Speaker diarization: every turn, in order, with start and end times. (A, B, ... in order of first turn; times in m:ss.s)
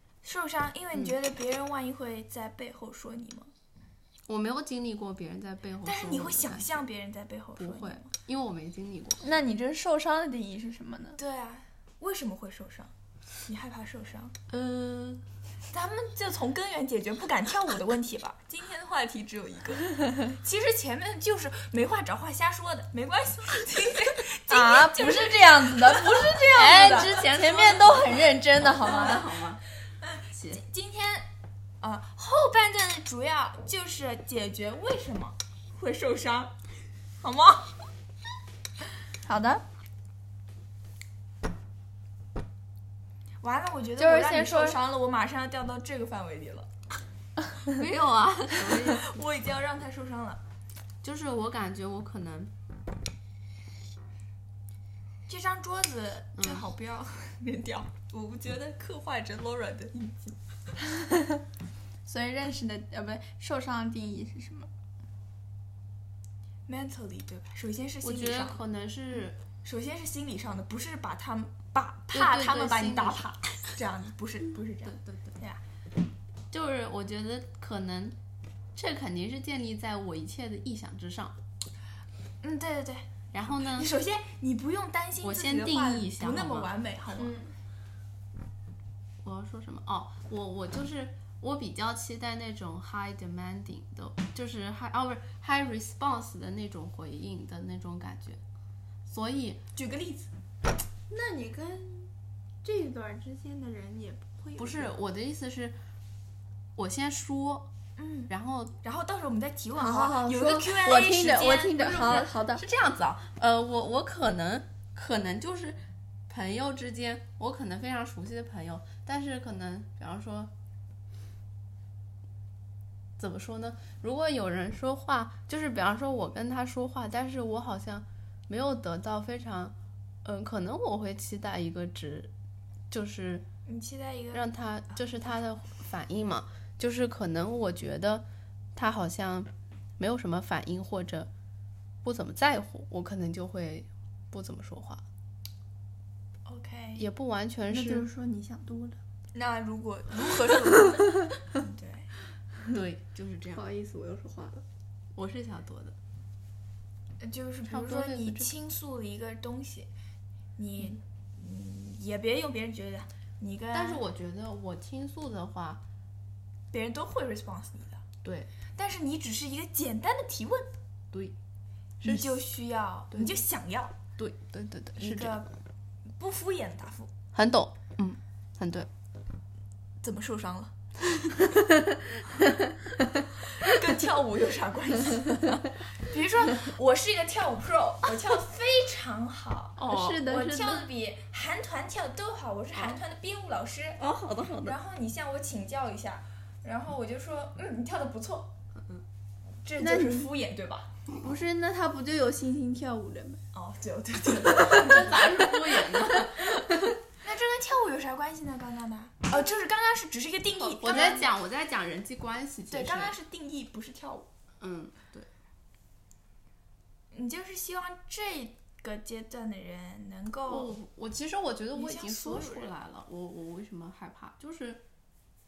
0:00.2-0:03.5 A
0:04.3-0:06.8 B
0:05.8-0:08.1 A
0:07.6-0:09.3 B
0:09.2-0:11.2 C
0:11.2-0:12.9 A
0:13.5-0:14.4 A
0:14.5-0:15.3 B
0:15.7-0:27.7 A
0:24.5-0:29.3 C
0:27.4-0:29.6 B
0:28.8-0:29.2 A
0:30.0-0:31.3 A
0:30.3-0:30.6 B
0:31.8-0:36.5 A
0:37.2-0:37.8 A
0:39.2-0:39.6 C
0:43.4-0:46.7 A
0:44.0-0:44.8 C
0:47.7-0:49.0 B
0:48.7-0:50.4 A
0:51.0-0:52.5 B
0:55.3-1:00.4 A
0:56.4-0:56.7 B
1:02.0-1:04.7 C
1:06.7-1:08.6 A
1:08.0-1:09.4 B
1:09.6-1:15.6 A
1:12.1-1:13.3 B
1:14.8-1:15.4 B
1:16.5-1:18.2 B
1:18.8-1:21.4 B
1:22.4-1:27.4 A
1:23.3-1:23.9 B
1:25.2-1:26.7 B
1:27.2-1:27.5 C
1:29.2-1:38.4 B
1:39.1-1:39.6 B
1:39.7-1:40.3 A
1:41.1-1:42.1 C
1:42.6-1:44.9 C
1:44.6-1:45.8 B
1:46.8-1:47.7 B
1:48.0-1:48.3 A
1:48.3-1:48.8 B
1:48.8-1:52.3 A
1:49.8-1:52.6 C
1:51.8-2:00.5 B
2:03.2-2:09.7 B
2:10.2-2:12.3 B
2:12.9-2:13.5 B
2:13.7-2:15.1 A
2:14.3-2:21.3 B
2:22.0-2:25.0 B
2:26.5-2:27.0 A
2:27.0-2:28.1 B
2:27.7-2:29.0 C
2:29.3-2:32.1 A
2:32.7-2:33.6 B
2:33.5-2:34.6 C
2:35.2-2:36.0 B
2:37.2-2:39.9 A
2:37.7-2:38.5 B
2:40.6-2:44.0 A
2:43.7-2:45.8 B
2:46.7-2:48.0 A
2:48.2-2:48.5 B
2:48.7-2:50.8 A
2:52.0-2:52.4 B
2:52.0-2:54.0 A
2:53.1-2:53.4 B
2:54.2-2:55.4 B
2:55.0-2:55.5 A
2:56.2-2:57.1 A
2:57.3-2:58.9 B
3:00.0-3:00.7 A
3:03.6-3:14.0 A
3:09.8-3:10.3 B
3:09.8-3:10.9 C
3:14.0-3:14.8 B
3:14.6-3:18.5 A
3:19.6-3:20.9 A
3:19.8-3:20.3 C
3:21.2-3:23.4 C
3:23.5-3:25.5 A
3:24.6-3:26.7 B
3:27.2-3:31.3 A
3:30.6-3:33.2 B
3:30.8-3:31.3 C
3:32.7-3:34.3 A
3:34.6-3:35.3 B
3:37.1-3:40.7 A
3:40.5-3:44.8 B
3:41.7-3:42.7 A